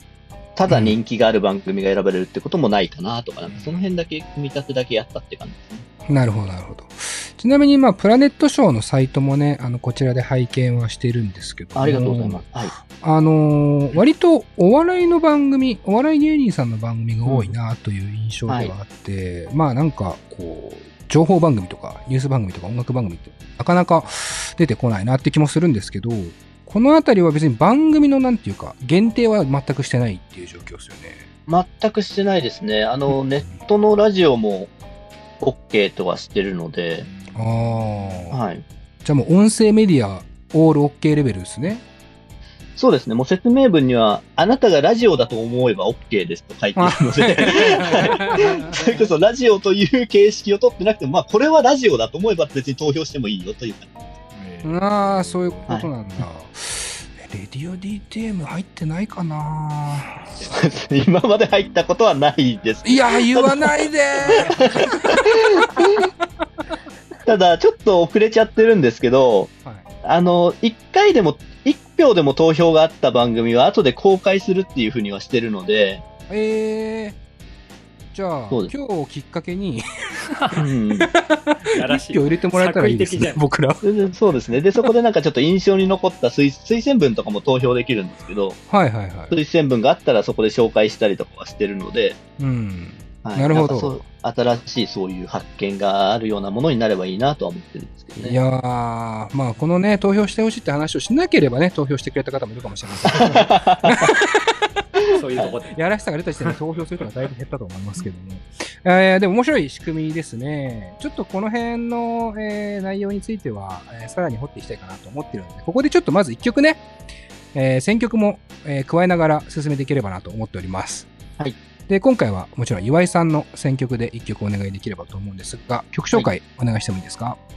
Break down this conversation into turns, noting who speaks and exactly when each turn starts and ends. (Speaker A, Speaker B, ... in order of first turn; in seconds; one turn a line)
Speaker A: 0.6-5.8
Speaker B: 0.7-1.0
Speaker C: 3.5-3.9
Speaker B: 6.1-31.3
Speaker A: 11.8-12.7
Speaker A: 17.3-17.5
Speaker A: 18.5-18.7
Speaker A: 31.5-34.7
Speaker B: 33.1-33.6
Speaker A: 35.4-37.1
Speaker C: 37.0-38.4
Speaker B: 37.3-38.4
Speaker A: 38.3-38.6
Speaker B: 39.0-41.8
Speaker A: 42.8-53.9
Speaker B: 46.8-49.0
Speaker C: 54.3-55.9
Speaker B: 54.6-60.4
Speaker A: 60.4-66.0
Speaker B: 62.8-65.6
Speaker A: 67.3-69.5
Speaker A: 70.0-76.0
Speaker B: 76.3-77.2
Speaker B: 78.1-79.9
Speaker A: 80.6-81.1
Speaker B: 81.0-83.9
Speaker C: 81.7-83.5
Speaker A: 83.8-88.6
Speaker B: 88.7-89.4
Speaker A: 89.3-92.2
Speaker B: 92.4-94.0
Speaker A: 93.2-98.4
Speaker B: 98.2-104.7
Speaker A: 103.1-104.1
Speaker C: 105.1-107.1
Speaker B: 105.7-116.8
Speaker B: 117.5-121.1
Speaker B: 121.9-127.4